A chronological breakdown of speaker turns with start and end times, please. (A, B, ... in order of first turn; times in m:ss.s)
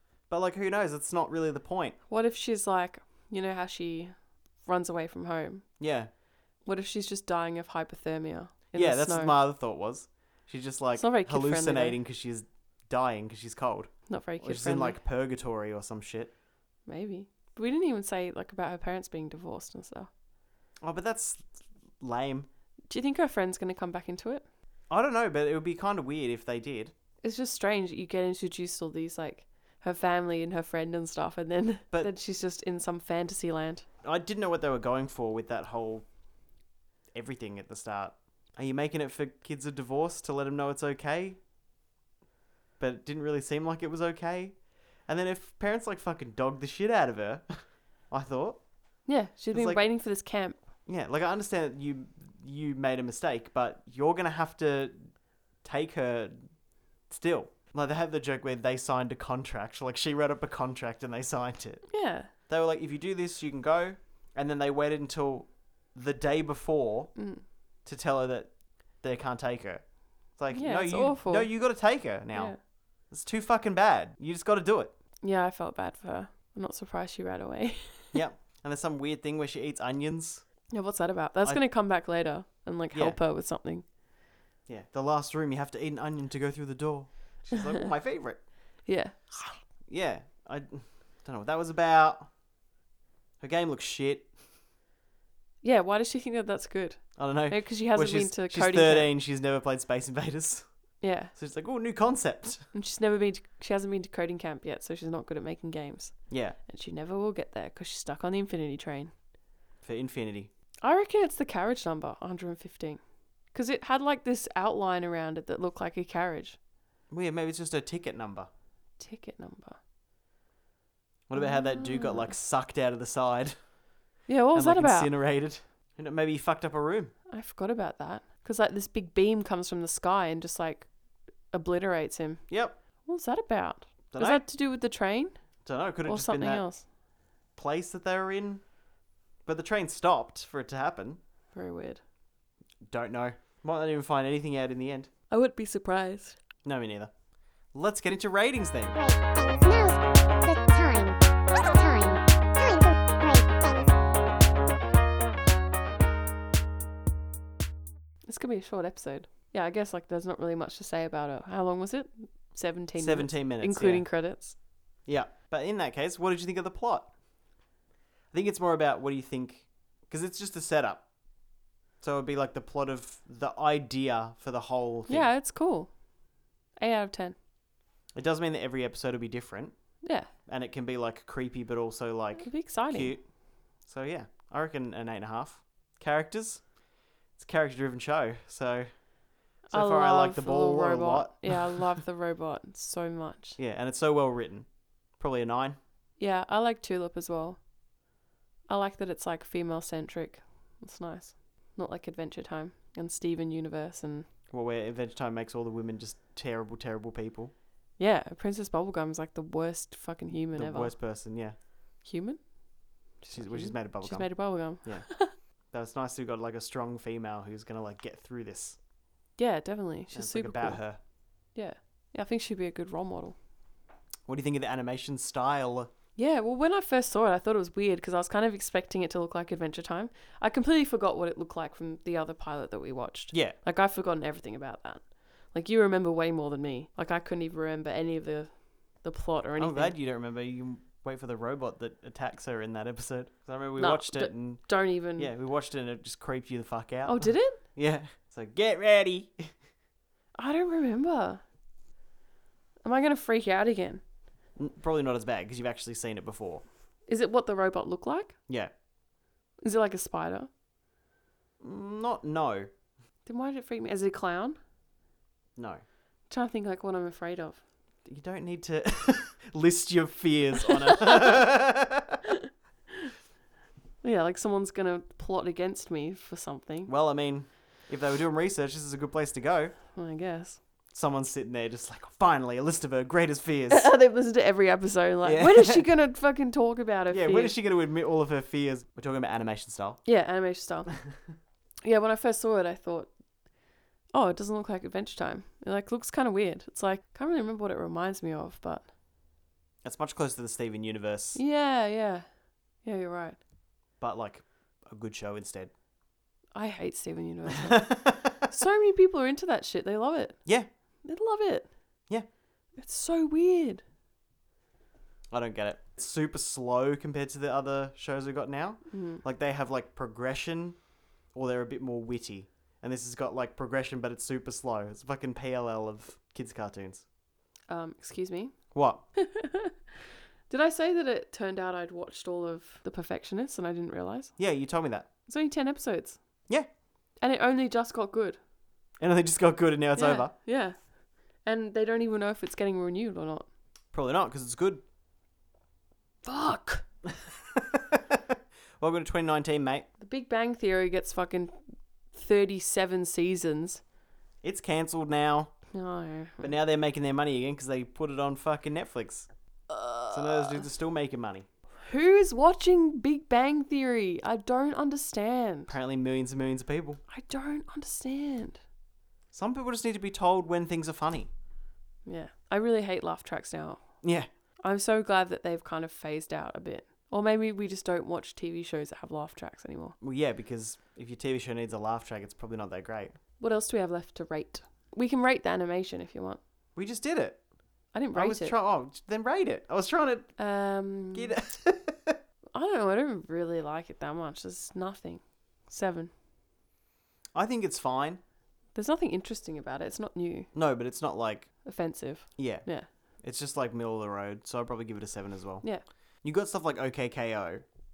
0:00.3-0:02.0 A
0:02.1-0:05.7 B
0:05.8-0:06.1 A
0:06.6-0:09.3 B
0:08.7-0:16.3 A
0:11.0-0:12.0 B
0:14.1-0:15.0 B
0:16.9-0:20.1 B
0:20.8-0:21.5 A
0:22.0-0:22.5 A
0:22.9-0:24.4 B
0:24.9-0:26.9 A
0:27.2-0:33.9 B
0:34.0-0:36.1 A
0:37.1-0:41.4 A
0:42.8-0:48.6 A
0:49.0-0:50.6 B
0:49.5-0:49.8 A
0:50.9-0:56.5 A
0:57.1-1:07.2 A
1:01.9-1:02.3 B
1:07.2-1:07.4 B
1:07.8-1:14.9 A
1:10.5-1:11.7 B
1:12.3-1:12.6 B
1:15.2-1:18.2 B
1:18.1-1:20.5 A
1:20.7-1:23.8 B
1:22.9-1:23.2 A
1:24.7-1:28.4 A
1:28.8-1:29.6 B
1:29.9-1:32.3 A
1:33.4-1:34.3 A
1:35.6-1:39.1 B
1:37.2-1:40.7 A
1:41.0-1:41.3 B
1:41.3-1:42.7 A
1:42.7-1:49.1 B
1:46.3-1:46.6 A
1:49.8-1:50.5 A
1:50.8-1:53.0 B
1:53.5-1:56.6 B
1:57.1-1:58.5 A
1:59.0-1:59.8 B
2:01.3-2:03.6 A
2:01.4-2:02.4 B
2:04.3-2:05.1 B
2:04.5-2:07.1 A
2:07.3-2:10.9 B
2:11.5-2:15.4 B
2:12.5-2:12.8 A
2:14.1-2:14.4 A
2:15.6-2:16.6 A
2:16.1-2:16.8 B
2:17.6-2:18.6 A
2:19.4-2:21.2 A
2:21.5-2:22.0 B
2:22.8-2:25.1 A
2:25.3-2:26.4 B
2:26.6-2:27.1 A
2:27.7-2:29.0 A
2:29.0-2:33.8 C
2:38.3-2:44.6 B
2:43.0-2:44.1 A
2:45.0-2:47.1 A
2:48.3-2:51.1 A
2:52.0-2:55.3 A
2:55.1-2:55.9 B
2:56.8-2:57.4 B
2:58.1-2:59.8 A
3:00.0-3:00.3 B
3:00.4-3:03.3 A
3:02.4-3:03.2 B
3:03.8-3:06.7 A
3:07.3-3:09.0 A
3:09.7-3:11.8 A
3:09.7-3:13.6 B
3:13.6-3:15.8 A
3:16.2-3:17.6 B
3:18.7-3:24.3 B
3:24.5-3:27.5 A
3:28.0-3:31.0 B
3:30.5-3:31.6 A
3:32.0-3:32.4 B
3:33.2-3:35.3 B
3:33.3-3:35.1 A
3:35.7-3:38.8 A
3:39.4-3:40.8 B
3:40.1-3:41.0 A
3:41.5-3:43.4 B
3:44.3-3:45.9 A
3:46.2-4:00.0 B
3:53.3-3:53.6 A
3:59.6-4:09.5 A
4:03.8-4:05.3 B
4:07.0-4:07.6 B
4:10.4-4:11.4 B
4:12.8-4:14.0 B
4:14.6-4:16.6 A
4:17.1-4:18.4 B
4:19.6-4:20.5 B
4:21.6-4:22.7 A
4:23.3-4:24.6 B
4:25.6-4:25.8 A
4:26.3-4:27.6 B
4:28.0-4:32.2 A
4:30.9-4:31.4 B
4:34.0-4:36.9 B
4:36.9-4:39.8 A
4:39.9-4:40.6 B
4:40.9-4:43.9 A
4:43.7-4:47.5 B
4:45.2-4:45.9 A
4:47.1-4:50.0 A
4:50.0-4:50.9 B
4:51.8-4:53.1 B
4:54.1-4:58.9 B
4:59.8-5:01.4 A
5:01.4-5:02.3 B
5:02.8-5:03.4 B
5:04.0-5:05.7 A
5:06.5-5:10.5 B
5:07.8-5:08.4 A
5:11.0-5:11.7 B
5:12.8-5:13.8 B
5:15.3-5:20.8 A
5:18.9-5:19.2 B
5:21.3-5:27.0 A
5:27.7-5:29.7 B
5:28.7-5:29.0 A
5:30.5-5:34.4 B
5:34.4-5:35.1 A
5:35.3-5:36.2 B
5:37.2-5:38.4 B
5:39.0-5:40.3 A
5:40.0-5:43.5 B
5:43.9-5:44.8 A
5:46.2-5:46.8 B
5:47.1-5:48.2 A
5:48.8-5:49.9 A
5:50.0-5:51.6 B
5:52.1-5:53.8 B
5:54.4-5:55.6 A
5:55.7-5:56.6 B
5:56.4-5:59.3 A
5:59.7-6:00.6 B
6:00.1-6:01.5 A
6:01.8-6:05.7 B
6:05.7-6:07.0 A
6:07.1-6:08.6 B
6:09.3-6:11.3 A
6:12.0-6:13.9 B
6:14.0-6:14.3 A
6:14.6-6:20.0 B
6:20.0-6:23.2 A
6:23.4-6:26.4 B
6:26.8-6:27.4 A
6:27.9-6:28.6 B
6:28.1-6:30.4 A
6:30.4-6:31.3 B
6:31.1-6:32.2 A
6:32.5-6:36.1 B
6:37.4-6:38.2 A
6:38.8-6:40.5 B
6:40.5-6:41.6 A
6:41.6-6:42.9 B
6:42.4-6:42.7 A
6:43.2-6:45.7 A
6:46.2-6:47.6 A